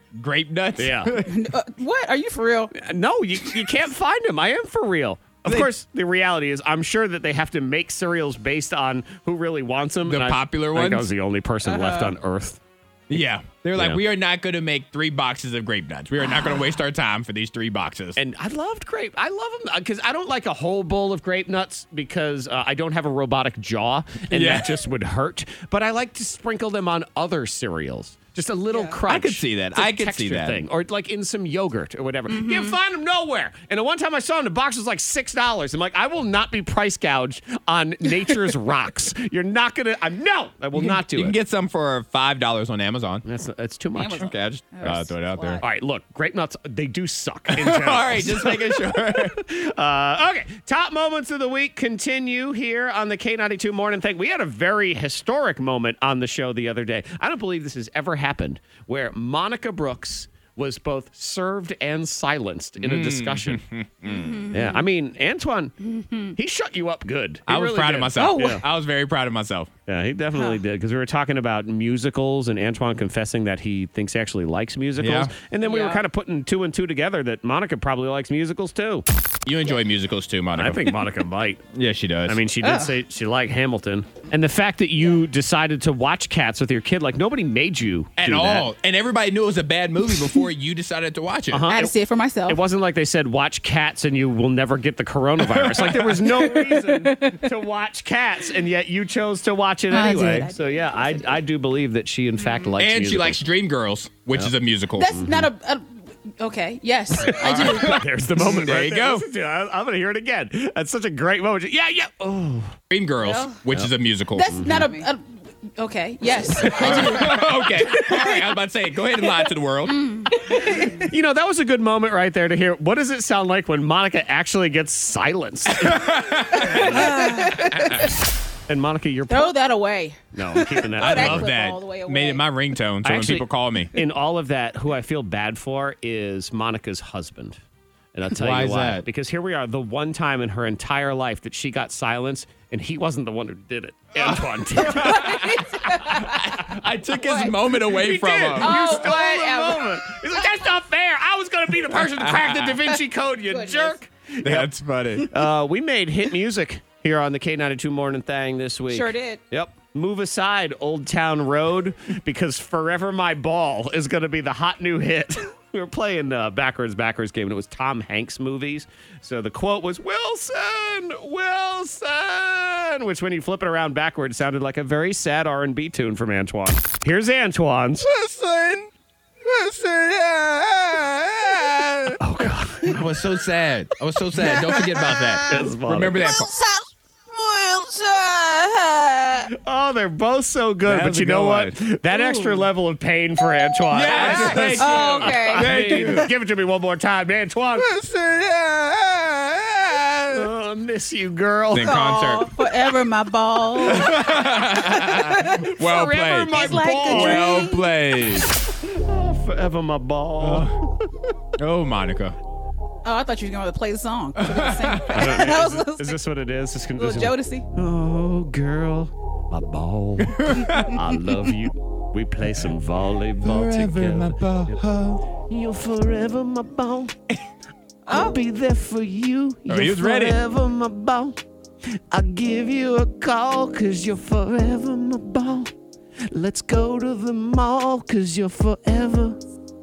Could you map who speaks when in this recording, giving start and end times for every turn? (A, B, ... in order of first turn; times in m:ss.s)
0:00.2-0:01.5 A
0:00.8-0:01.1 B
0:01.2-0:02.7 C
0:02.7-0:12.6 B
0:05.4-0:05.7 A
0:10.0-0:11.1 A
0:11.6-0:12.2 C
0:13.1-0:18.2 A
0:13.8-0:14.0 B
0:18.2-0:41.4 B
0:24.3-0:24.8 A
0:28.7-0:29.0 C
0:29.1-0:30.6 A
0:32.3-0:32.8 C
0:40.7-0:43.2 A
0:43.2-0:44.3 B
0:44.0-0:45.6 C
0:44.0-0:45.6 A
0:45.6-1:03.6 B
0:47.5-0:49.4 A
1:02.8-1:04.5 A
1:04.1-1:04.8 C
1:04.5-1:05.8 B
1:05.9-1:06.3 C
1:06.3-1:08.6 B
1:07.5-1:09.7 A
1:08.2-1:08.6 C
1:09.9-1:19.0 B
1:10.3-1:10.6 C
1:15.0-1:15.3 A
1:15.6-1:16.0 C
1:19.5-1:21.0 A
1:20.6-1:21.6 B
1:21.7-1:22.4 A
1:22.3-1:28.7 B
1:22.6-1:22.9 C
1:28.2-1:31.6 A
1:31.5-1:32.0 B
1:31.7-1:32.6 C
1:32.5-1:43.4 B
1:35.4-1:36.5 A
1:36.4-1:37.4 C
1:39.9-1:41.4 C
1:42.8-1:45.1 A
1:44.3-1:45.5 B
1:45.0-1:48.0 C
1:47.2-1:49.2 A
1:47.2-1:52.8 B
1:52.9-1:54.9 A
1:53.2-1:53.6 C
1:53.7-1:54.9 B
1:54.3-1:55.2 C
1:55.8-1:58.5 C
1:56.6-2:00.3 A
1:59.4-2:00.9 C
2:00.3-2:08.0 B
2:05.7-2:08.1 A
2:06.7-2:08.1 C
2:08.7-2:09.6 B
2:09.3-2:12.4 C
2:10.3-2:11.5 B
2:11.0-2:13.9 A
2:13.0-2:17.6 B
2:18.1-2:26.8 B
2:18.4-2:19.0 A
2:24.2-2:29.0 A
2:24.8-2:26.4 C
2:27.2-2:27.6 C
2:27.7-2:34.7 B
2:28.6-2:30.0 C
2:31.9-2:32.9 A
2:33.4-2:34.0 C
2:34.4-2:35.3 A
2:35.2-2:58.1 B
2:38.9-2:39.4 C
2:58.0-2:58.9 A
2:59.5-3:02.2 A
3:02.2-3:03.0 B
3:02.9-3:06.6 A
3:04.4-3:04.9 C
3:05.5-3:06.3 B
3:06.4-3:09.5 C
3:09.6-3:17.9 B
3:10.9-3:11.8 A
3:12.1-3:12.6 C
3:13.9-3:16.3 A
3:14.1-3:16.0 C
3:17.8-3:20.5 A
3:20.3-3:22.0 B
3:21.7-3:22.6 A
3:21.8-3:25.7 C
3:23.8-3:28.6 A
3:25.5-3:27.7 B
3:26.3-3:27.9 C
3:28.8-3:30.9 B
3:30.4-3:30.8 A
3:31.6-3:32.4 A
3:33.0-3:36.2 C
3:34.4-3:35.4 A
3:35.1-3:44.8 B
3:37.0-3:37.7 C
3:40.2-3:41.1 A
3:43.4-3:45.2 A
3:45.4-3:47.2 B
3:48.1-3:48.4 C
3:48.1-3:51.4 B
3:49.7-3:50.4 A
3:52.0-3:55.7 B
3:56.3-3:59.4 B